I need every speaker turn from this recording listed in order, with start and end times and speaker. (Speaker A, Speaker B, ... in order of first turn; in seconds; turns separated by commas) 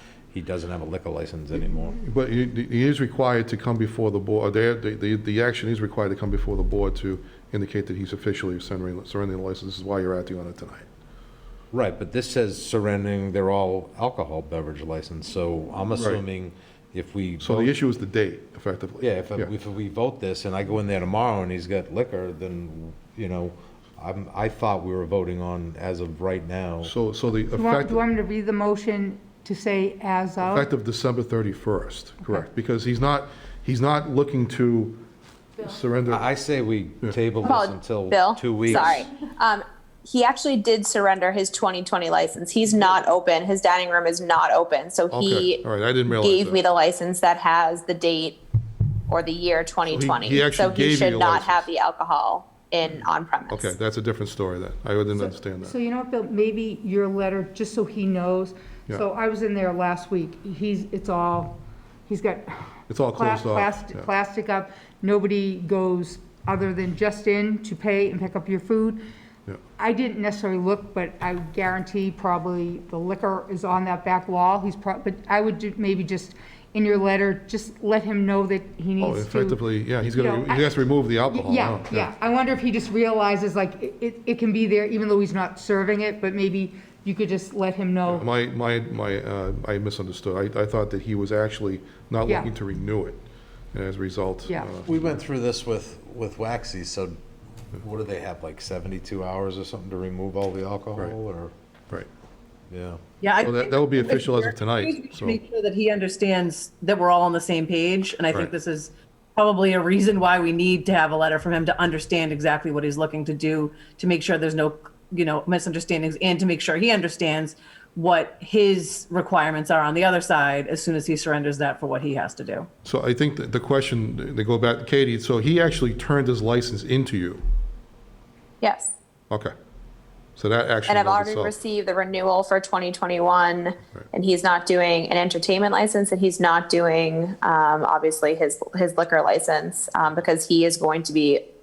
Speaker A: 0.3-2.0, Speaker B: 1.7-10.9, Speaker A: 11.7-17.7, Speaker B: 17.4-19.5, Speaker A: 19.0-26.9, Speaker B: 26.8-28.0, Speaker C: 27.6-30.7, Speaker B: 30.4-35.0, Speaker B: 35.6-36.3, Speaker A: 36.1-39.1, Speaker D: 37.4-48.4, Speaker B: 45.1-46.6, Speaker D: 49.1-53.8, Speaker B: 49.9-51.7, Speaker B: 53.5-55.8, Speaker C: 55.2-69.0, Speaker B: 62.9-64.1, Speaker C: 69.8-88.2, Speaker B: 79.0-82.1, Speaker B: 88.1-93.2, Speaker B: 93.7-95.1, Speaker A: 94.8-97.2, Speaker A: 97.8-101.5, Speaker A: 102.7-103.0, Speaker E: 103.2-122.7, Speaker B: 103.4-105.4, Speaker B: 122.8-127.5, Speaker D: 128.6-128.9, Speaker B: 130.4-131.5, Speaker D: 130.9-141.4